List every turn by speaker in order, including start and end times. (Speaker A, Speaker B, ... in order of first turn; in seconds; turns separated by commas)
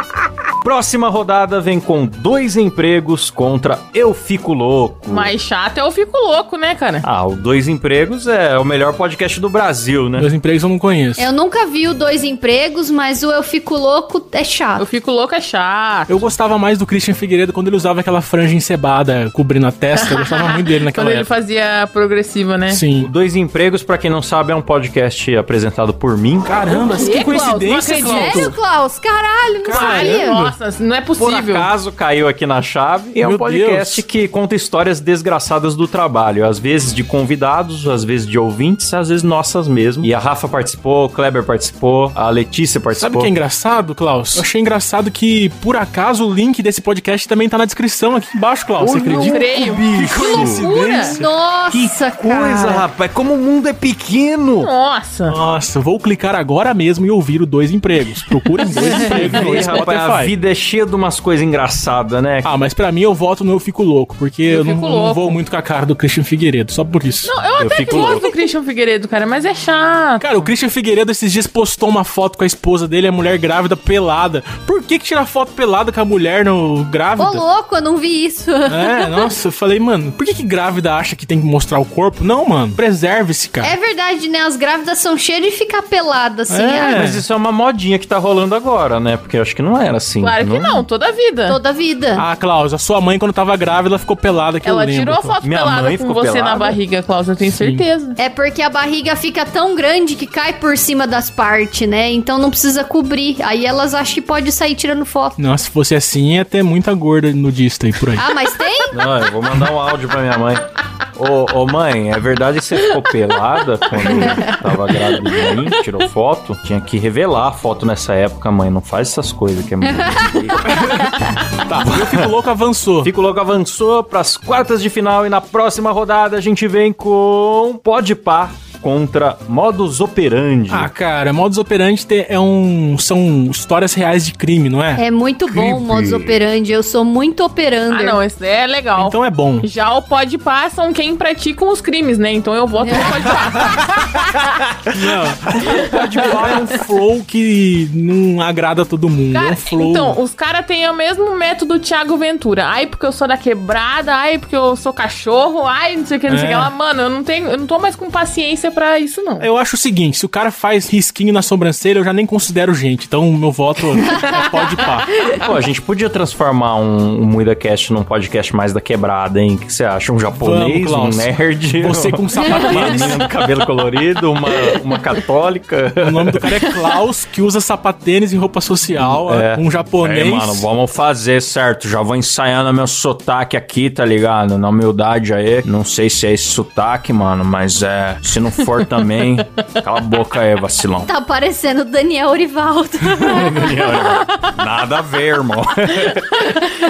Speaker A: 0.6-5.3, Speaker B: 5.1-7.1, Speaker A: 7.0-10.3, Speaker C: 10.2-11.3, Speaker D: 11.2-14.8, Speaker B: 14.8-16.3, Speaker C: 16.1-21.3, Speaker B: 20.0-22.8, Speaker C: 22.7-23.1, Speaker A: 23.0-26.9, Speaker C: 26.4-28.5, Speaker B: 26.9-28.6, Speaker D: 27.9-30.4, Speaker C: 29.6-30.5, Speaker B: 29.7-31.7, Speaker A: 31.2-43.3, Speaker C: 33.2-34.0, Speaker C: 43.0-51.3, Speaker A: 48.8-50.6, Speaker B: 49.0-51.1, Speaker D: 50.2-52.8, Speaker A: 51.7-54.7, Speaker B: 54.6-55.4, Speaker C: 55.3-60.3, Speaker A: 58.8-62.5, Speaker B: 58.9-59.4, Speaker C: 62.4-67.3, Speaker B: 64.5-65.4, Speaker B: 67.2-70.4, Speaker A: 67.6-68.3, Speaker D: 67.9-68.3, Speaker C: 70.2-77.4, Speaker D: 77.2-79.3, Speaker C: 78.7-83.8, Speaker D: 83.6-87.0, Speaker C: 86.5-87.2, Speaker A: 86.8-90.8, Speaker B: 90.2-91.6, Speaker D: 91.5-92.3, Speaker C: 92.2-95.4, Speaker B: 94.6-98.2, Speaker A: 95.4-96.8, Speaker C: 97.5-97.8, Speaker D: 98.2-105.4, Speaker C: 105.4-108.3, Speaker D: 108.2-109.1, Speaker A: 108.9-121.1, Speaker D: 114.2-114.6, Speaker D: 120.0-120.4, Speaker C: 121.6-123.1, Speaker A: 121.7-122.3, Speaker A: 123.0-130.9, Speaker C: 130.7-135.0, Speaker D: 135.0-138.2, Speaker A: 135.5-136.4, Speaker B: 137.9-143.9, Speaker C: 139.0-139.7, Speaker D: 142.8-143.2, Speaker C: 144.9-150.2, Speaker A: 145.6-146.6, Speaker B: 149.3-159.5, Speaker C: 156.3-156.7, Speaker C: 159.4-165.1, Speaker A: 165.3-176.4, Speaker C: 170.4-173.2, Speaker D: 172.4-172.7, Speaker C: 176.0-180.7, Speaker A: 179.0-191.1, Speaker D: 191.1-194.0, Speaker A: 193.2-196.4